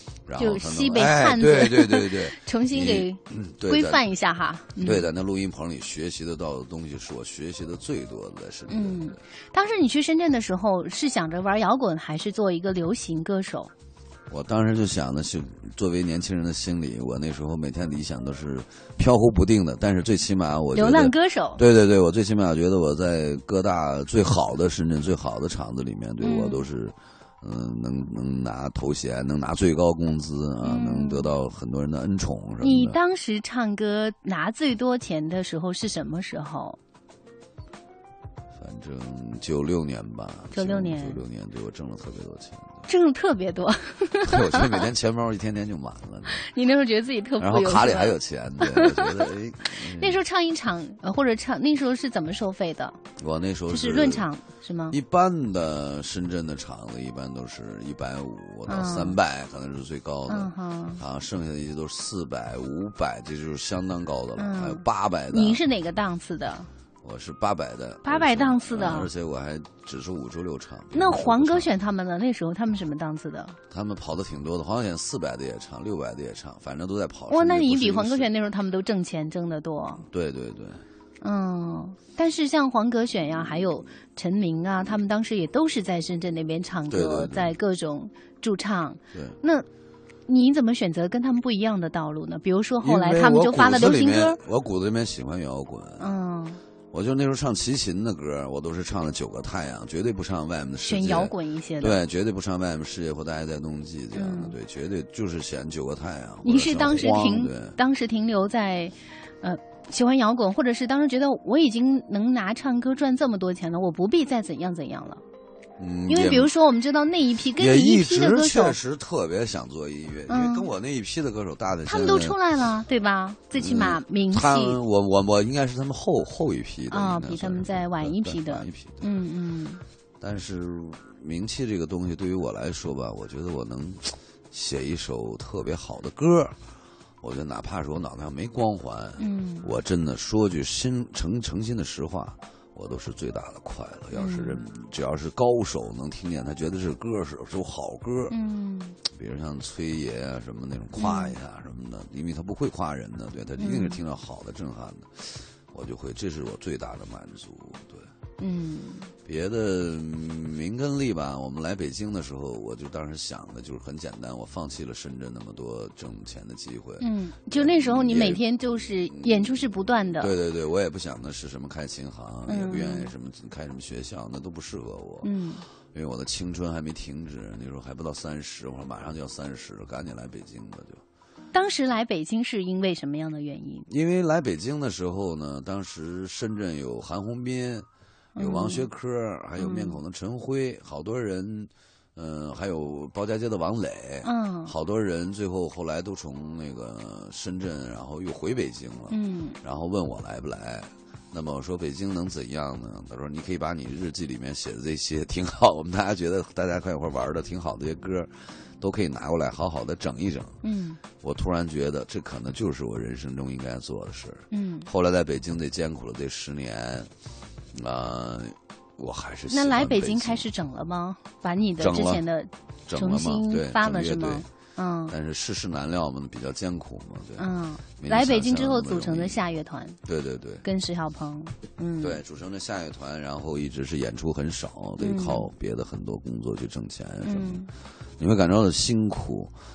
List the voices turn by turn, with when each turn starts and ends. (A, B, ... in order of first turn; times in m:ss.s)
0:00.3-0:04.1 A
0:00.4-0:05.1 B
0:04.8-0:09.2 A
0:08.7-0:13.7 B
0:14.3-0:33.0 A
0:20.7-0:21.6 B
0:26.2-0:26.6 B
0:30.6-0:31.3 B
0:32.6-0:36.8 B
0:38.6-0:42.8 A
0:40.5-0:41.2 B
0:42.9-0:44.8 B
0:44.2-0:46.5 A
0:46.4-0:49.2 B
0:47.4-0:50.2 A
0:50.0-0:53.0 B
0:53.2-0:54.3 A
0:53.7-0:55.0 B
0:54.9-1:05.6 A
0:58.6-0:59.2 B
1:00.3-1:01.0 B
1:04.4-1:06.7 B
1:07.0-1:11.7 A
1:08.0-1:09.1 B
1:10.9-1:13.6 B
1:13.7-1:18.3 A
1:17.3-1:20.0 B
1:20.1-1:20.8 A
1:21.2-1:29.6 B
1:26.9-1:27.5 A
1:29.1-1:29.4 A
1:30.3-1:34.4 B
1:32.8-1:36.1 A
1:36.0-1:36.6 B
1:36.9-1:47.8 A
1:40.8-1:42.0 B
1:44.1-1:44.5 B
1:46.4-1:55.2 B
1:55.8-1:56.5 A
1:56.1-1:58.8 B
1:57.6-2:02.4 A
2:00.3-2:00.7 B
2:01.8-2:04.8 B
2:03.5-2:09.1 A
2:06.9-2:09.8 B
2:10.2-2:16.5 A
2:17.2-2:28.4 A
2:19.2-2:19.7 B
2:24.1-2:24.6 B
2:28.3-2:29.0 B
2:29.0-2:38.1 A
2:31.0-2:31.4 B
2:33.6-2:34.0 B
2:38.4-2:39.1 B
2:39.2-2:55.3 A
2:47.0-2:50.3 B
2:52.5-2:53.1 B
2:55.2-2:55.6 B
2:55.9-3:01.0 A
3:01.5-3:03.8 B
3:03.9-3:07.8 A
3:08.4-3:08.9 B
3:08.4-3:37.1 A
3:09.6-3:10.0 B
3:14.2-3:14.7 B
3:19.1-3:19.6 B
3:30.6-3:31.0 B
3:34.5-3:34.9 B
3:37.7-3:40.5 A
3:39.5-3:45.1 B
3:41.8-3:42.2 A
3:42.9-3:44.4 A
3:45.1-3:49.4 A
3:47.4-3:50.0 B
3:50.0-3:50.6 A
3:50.6-3:52.2 B
3:52.0-3:57.7 A
3:55.0-3:55.5 B
3:57.2-3:57.7 B
3:58.2-3:59.5 A